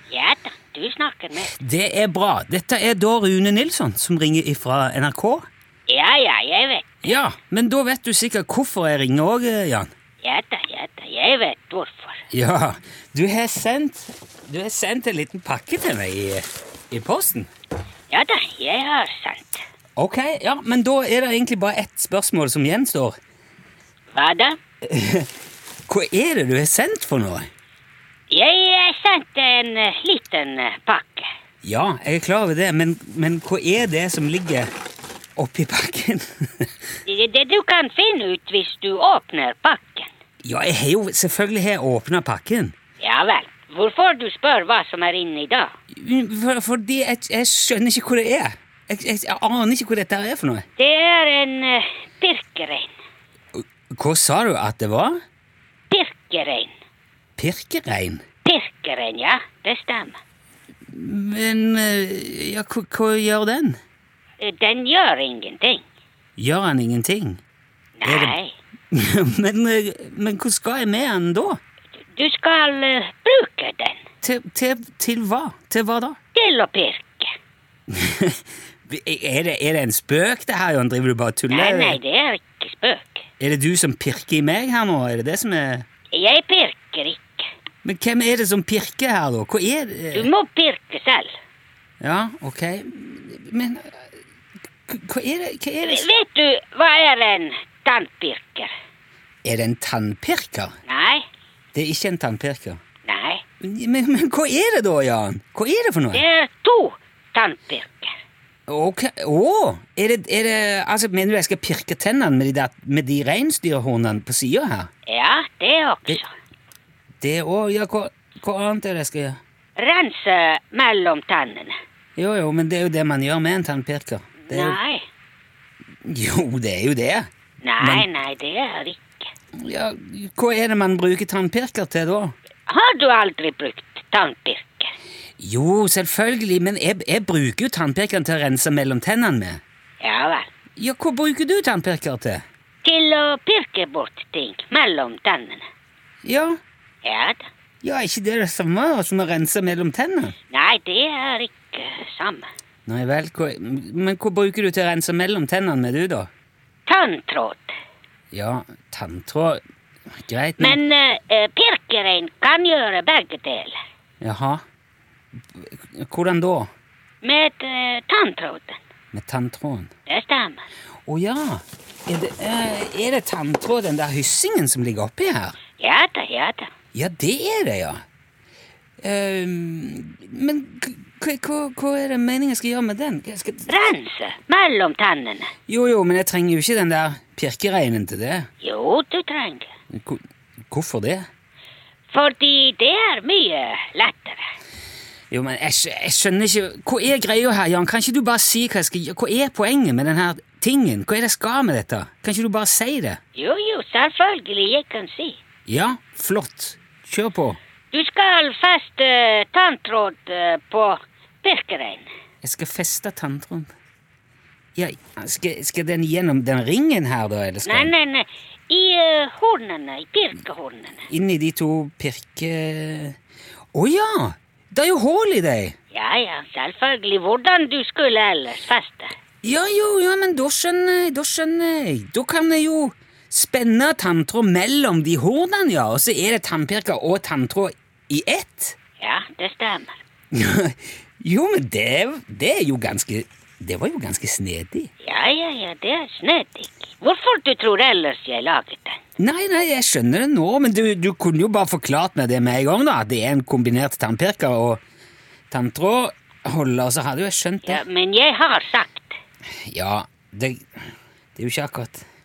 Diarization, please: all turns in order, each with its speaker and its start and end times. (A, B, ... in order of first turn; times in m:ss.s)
0:00.1-0:01.6 A
0:01.4-0:05.5 B
0:05.9-0:07.1 A
0:07.0-0:09.9 B
0:10.2-0:12.2 A
0:12.3-0:17.5 B
0:18.1-0:19.6 A
0:20.0-0:23.2 B
0:24.1-0:24.6 A
0:24.8-0:25.3 B
0:25.9-0:27.5 B
0:28.3-0:31.3 A
0:31.6-0:34.7 B
0:35.4-0:36.7 B
0:37.1-0:40.1 A
0:40.4-0:42.7 B
0:43.0-0:45.7 A
0:45.9-0:50.6 B
0:50.8-0:52.9 A
0:53.6-0:55.2 B
0:55.9-0:56.7 A
0:57.4-0:58.2 B
0:58.4-1:00.2 A
1:00.9-1:03.8 B
1:04.4-1:05.8 A
1:06.4-1:07.4 B
1:08.0-1:08.5 A
1:08.0-1:08.4 B
1:08.9-1:11.6 B
1:12.2-1:14.0 A
1:14.2-1:16.2 B
1:16.3-1:17.3 A
1:17.9-1:22.0 B
1:21.5-1:23.2 A
1:23.4-1:25.9 B
1:26.1-1:27.4 A
1:27.8-1:30.3 B
1:30.1-1:31.3 A
1:32.0-1:34.1 B
1:34.9-1:36.1 B
1:35.8-1:38.7 A
1:39.4-1:40.7 B
1:40.9-1:41.2 A
1:41.7-1:42.8 B
1:43.0-1:43.4 A
1:43.6-1:46.2 B
1:46.1-1:48.1 A
1:48.7-1:54.9 B
1:55.1-1:56.3 A
1:57.2-1:59.4 B
1:59.8-2:01.7 A
2:02.2-2:04.8 B
2:04.5-2:05.0 A
2:06.0-2:07.3 B
2:07.6-2:09.3 A
2:07.8-2:08.1 B
2:09.6-2:12.4 B
2:12.7-2:14.9 A
2:15.4-2:19.6 B
2:20.0-2:20.5 A
2:20.8-2:22.4 B
2:22.8-2:25.6 A
2:26.2-2:26.6 B
2:27.0-2:27.5 A
2:27.8-2:30.4 B
2:30.5-2:32.5 A
2:32.9-2:36.3 B
2:36.9-2:37.7 A
2:38.3-2:39.6 B
2:40.2-2:40.8 B
2:40.6-2:43.8 A
2:44.2-2:44.6 B
2:45.5-2:46.7 B
2:47.2-2:48.8 A
2:49.1-2:49.9 B
2:50.1-2:50.6 A
2:51.1-2:55.6 B
2:55.8-2:56.7 A
2:56.9-2:58.0 B
2:59.0-3:03.7 B
3:03.7-3:05.5 A
3:05.7-3:08.5 B
3:08.6-3:09.7 A
3:09.9-3:11.3 B
3:12.1-3:14.4 A
3:15.3-3:23.2 B
3:23.4-3:25.4 A
3:25.7-3:27.6 B
3:27.9-3:32.1 A
3:32.4-3:33.7 B
3:34.8-3:37.9 B
3:37.6-3:41.1 A
3:41.1-3:43.2 B
3:43.7-3:45.8 B
3:45.9-3:49.1 A
3:49.4-3:58.8 B
3:59.0-4:00.0 A
4:00.3-4:04.9 B
4:05.0-4:09.0 A
4:09.2-4:14.8 B
4:15.5-4:17.8 B
4:17.6-4:19.2 A
4:19.7-4:20.8 B
4:21.4-4:22.0 B